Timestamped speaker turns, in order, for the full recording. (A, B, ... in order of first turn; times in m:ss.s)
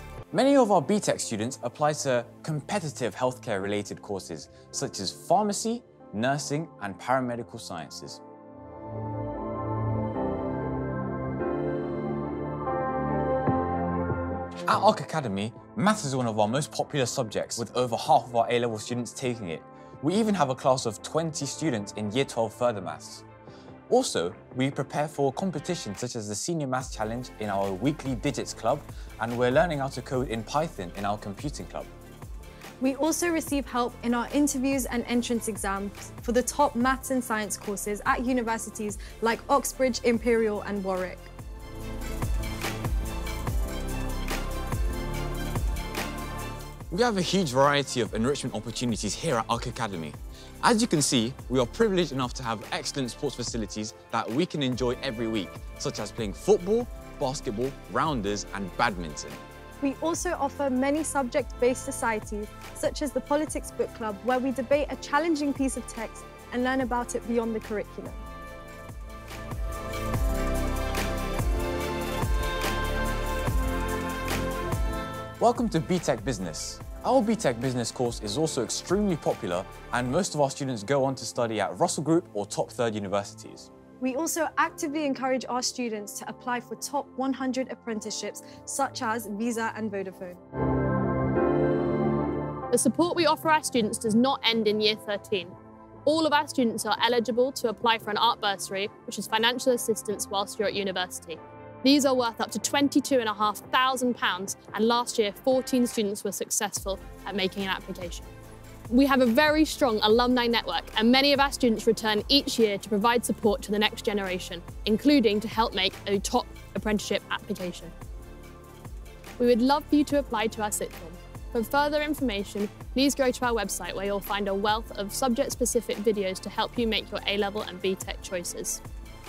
0:00.3-0:08.2 A
0:14.7-0:23.2 A
0:23.9-0:31.9 A
0:32.8-0:41.3 B
0:46.9-0:59.4 A
0:59.8-1:08.2 B
1:15.4-1:23.7 A
1:24.0-1:30.4 B
1:32.7-1:35.6 C
1:36.1-1:48.3 C
1:48.9-1:57.9 C
1:59.4-2:08.8 C